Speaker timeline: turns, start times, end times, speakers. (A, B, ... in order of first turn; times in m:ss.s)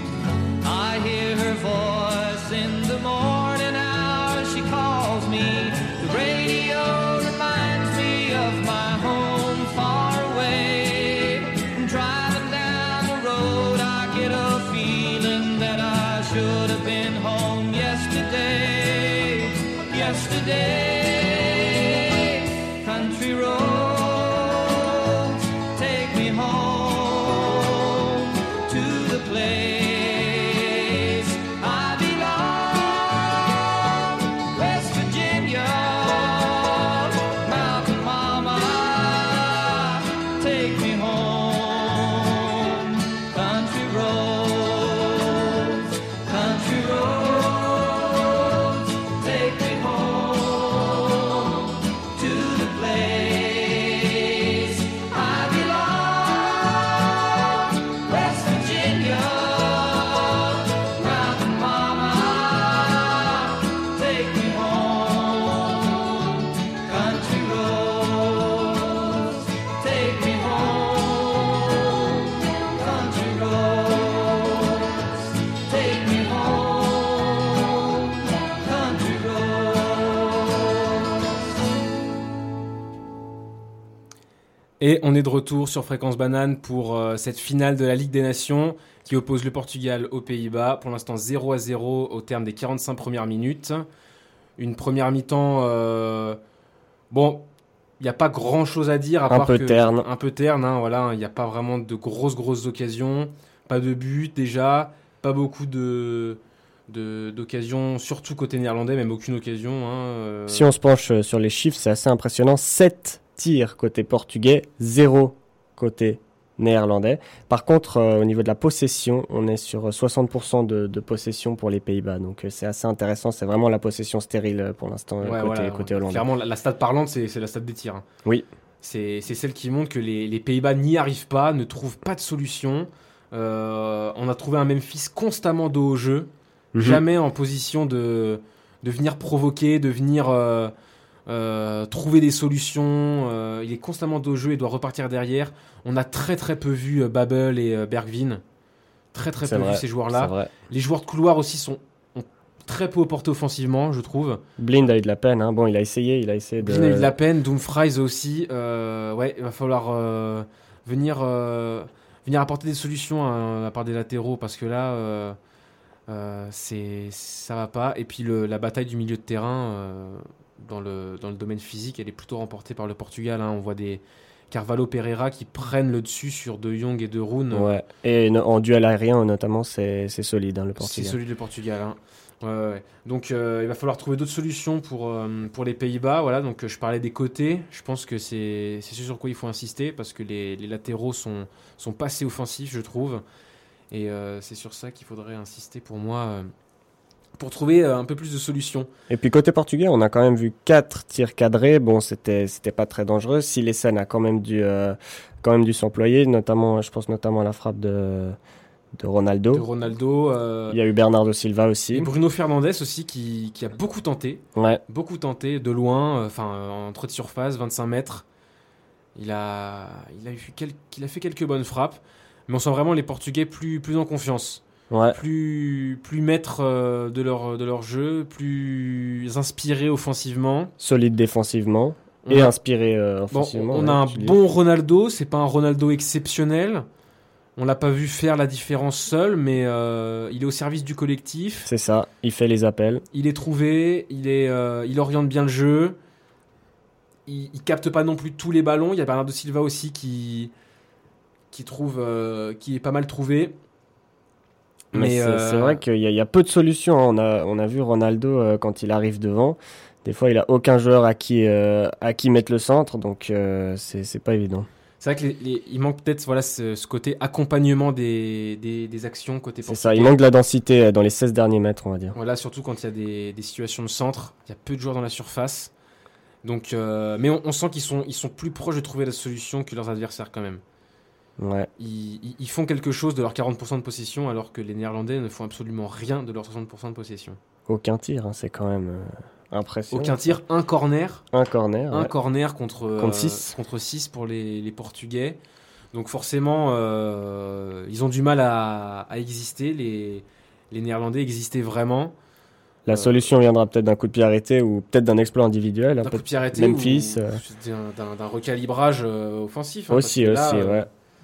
0:00.6-1:21.3 A
1:24.8-1:33.8 B
1:34.6-1:36.4 B
1:37.1-1:37.5 B
1:38.0-1:50.7 B
1:39.3-1:40.1 C
1:50.5-2:06.3 C
2:05.2-2:08.0 B
2:08.8-2:20.7 B
2:16.7-2:17.0 C
2:21.3-2:28.4 B
2:29.1-2:34.4 B
2:29.4-2:30.5 C
2:34.6-2:37.1 C
2:36.6-2:45.4 B
2:46.1-2:57.8 B
2:57.5-3:01.2 C
3:00.8-3:13.2 B
3:13.9-3:16.5 B
3:17.4-3:18.9 B
3:19.1-3:28.4 C
3:29.0-3:29.7 C
3:29.5-3:30.8 B
3:30.7-3:32.1 C
3:31.9-3:38.3 B
3:34.6-3:34.8 C
3:39.2-3:50.7 B
3:44.9-3:45.2 C
3:50.8-3:54.4 C
3:52.2-3:52.6 B
3:53.3-3:56.8 B
3:57.6-4:01.7 B
4:01.7-4:03.0 C
4:03.1-4:06.0 B
4:07.3-4:10.5 B
4:11.5-4:13.6 B
4:14.9-4:15.8 B
4:14.9-4:24.7 C
4:25.0-4:30.2 B
4:29.7-4:32.2 C
4:32.1-4:35.7 B
4:36.4-4:40.6 B
4:41.4-4:41.7 C
4:41.8-4:47.4 B
4:47.7-4:50.4 C
4:49.9-4:51.2 B
4:51.3-4:52.1 C
4:51.9-4:55.4 B
4:53.0-4:53.6 C
4:55.9-5:02.2 B
5:02.9-5:07.4 C
5:02.9-5:03.3 B
5:06.0-5:10.9 B
5:09.9-5:10.9 C